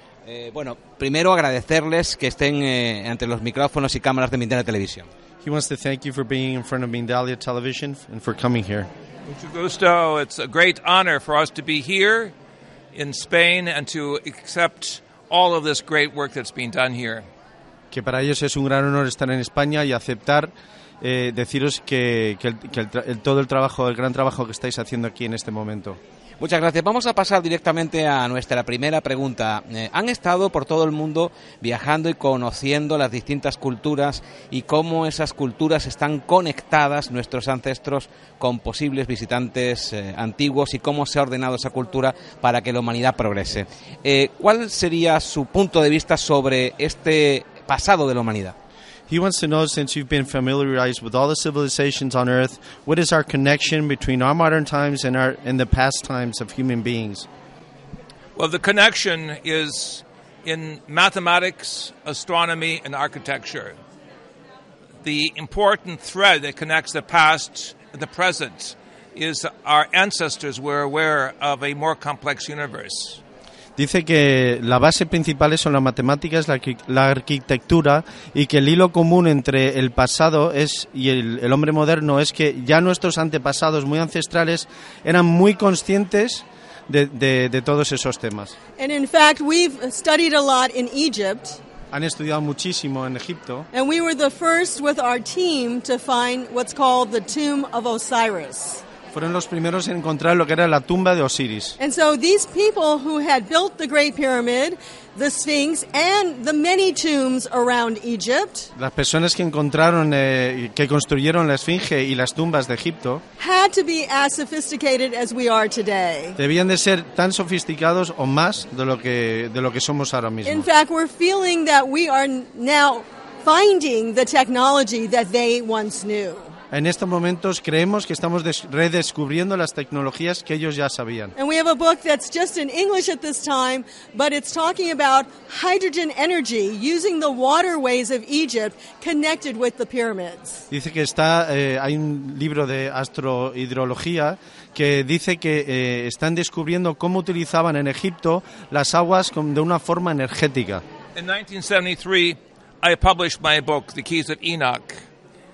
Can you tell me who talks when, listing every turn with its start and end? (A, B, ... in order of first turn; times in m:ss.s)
0:00.3-0:05.1 A
0:05.4-0:08.9 B
0:09.3-0:12.3 C
0:12.9-0:17.3 C
0:17.9-0:26.0 B
0:26.4-0:48.6 A
0:49.1-0:57.3 B
0:58.4-1:03.8 C
1:05.0-1:13.2 C
1:13.8-1:28.6 B
1:28.8-1:31.6 D
1:31.9-1:33.7 B
1:33.7-1:38.8 D
1:39.1-1:41.8 B
1:41.8-1:48.7 D
1:48.8-1:53.2 B
1:53.4-1:56.4 D
1:56.4-2:00.7 B
2:00.4-2:06.5 D
2:06.7-2:11.3 B
2:11.4-2:20.6 D
2:20.7-2:30.8 B
2:31.1-2:35.0 C